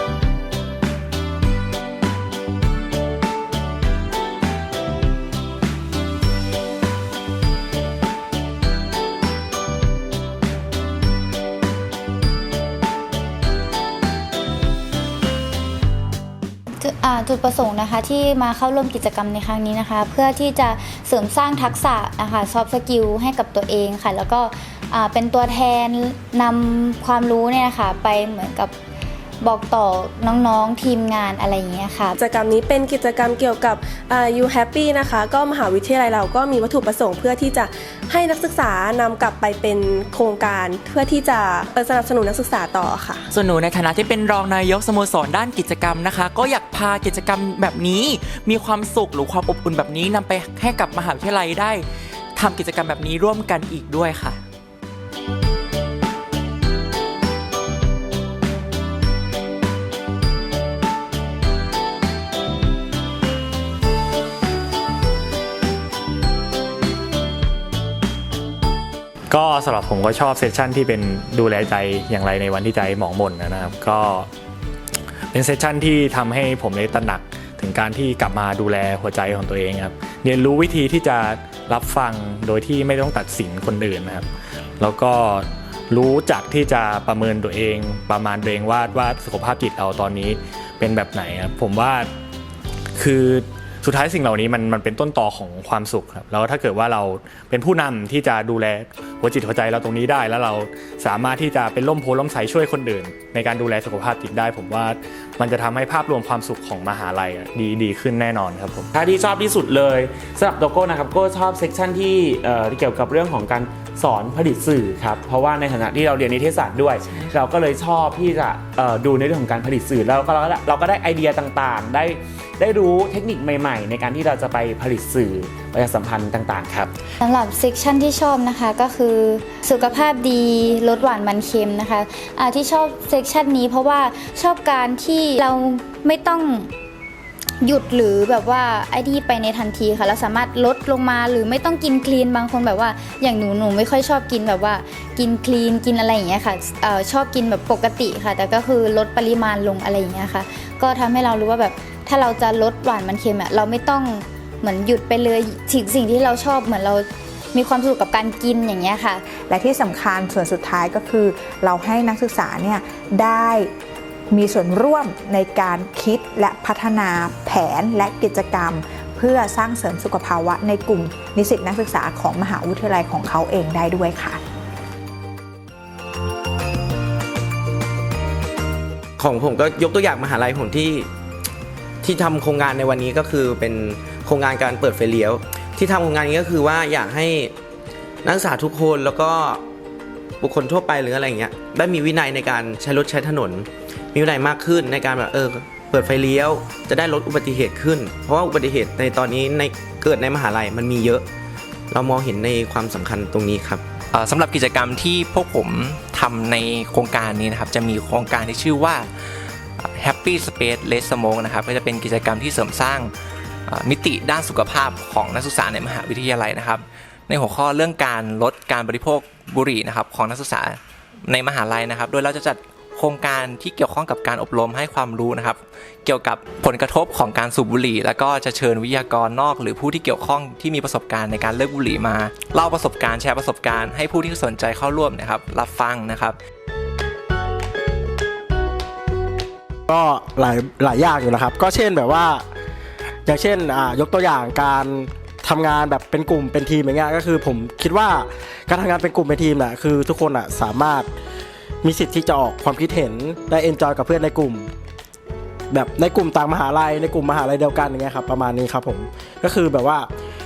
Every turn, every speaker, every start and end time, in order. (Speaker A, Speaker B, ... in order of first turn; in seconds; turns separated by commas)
Speaker A: 16.8-28.7, Speaker A: 29.4-32.1, Speaker B: 32.2-43.3, Speaker C: 43.3-54.4, Speaker D: 69.3-74.3, Speaker D: 75.3-84.3, Speaker D: 84.8-92.1, Speaker D: 93.0-108.9, Speaker E: 108.9-126.9, Speaker A: 127.2-136.7, Speaker A: 137.6-159.3, Speaker F: 159.4-163.7, Speaker F: 164.3-174.4, Speaker G: 179.2-181.1, Speaker G: 182.0-187.5, Speaker G: 188.2-189.6, Speaker G: 190.4-201.2, Speaker G: 201.9-203.8, Speaker H: 204.1-209.1, Speaker H: 210.0-213.1, Speaker H: 213.7-236.4, Speaker I: 239.9-242.4, Speaker I: 243.3-251.1, Speaker I: 251.8-254.7, Speaker I: 255.7-260.1